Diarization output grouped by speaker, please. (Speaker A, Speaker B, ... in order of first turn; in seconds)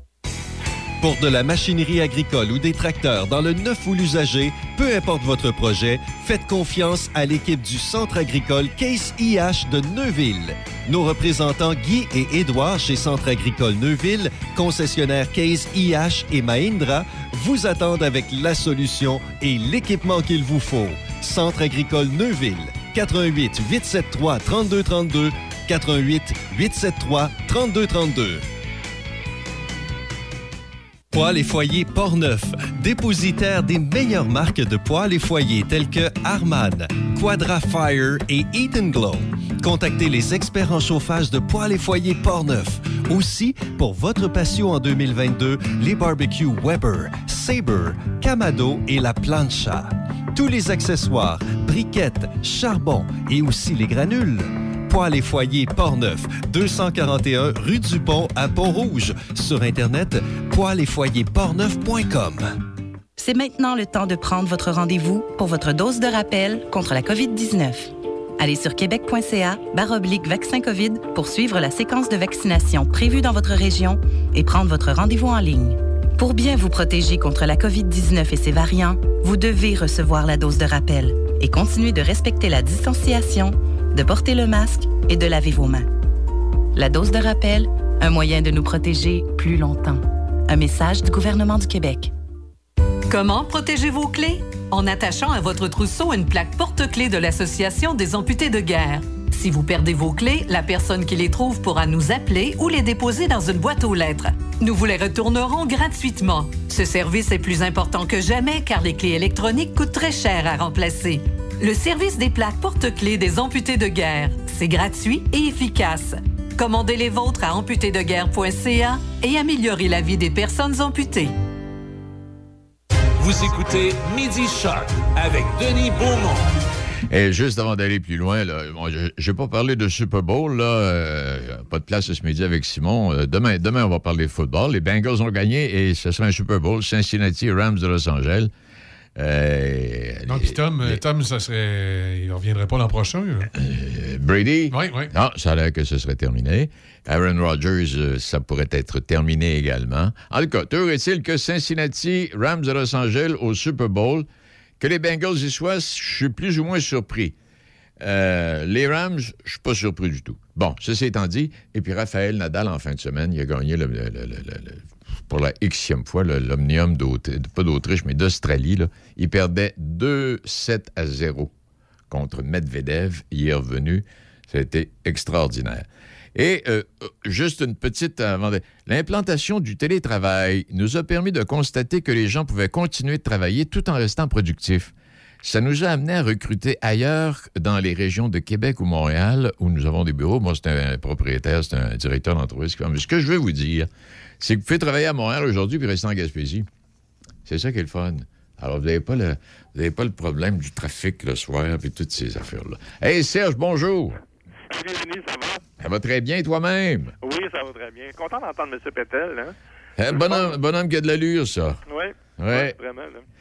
Speaker A: 1.0-28.4, 31.1-62.5
Speaker B: 63.2-85.8, 86.7-92.1
Speaker C: 93.1-121.3
Speaker D: 123.2-126.5
Speaker E: 127.1-138.5, 139.2-141.0, 143.5-154.3, 154.8-157.3, 158.0-171.5, 172.1-193.9, 194.4-196.7, 197.4-204.2, 205.8-207.1, 210.0-211.8, 212.4-212.7
Speaker F: 140.2-143.5, 144.7-145.1
Speaker G: 204.7-205.6, 207.2-209.6, 210.1-210.6, 211.9-213.2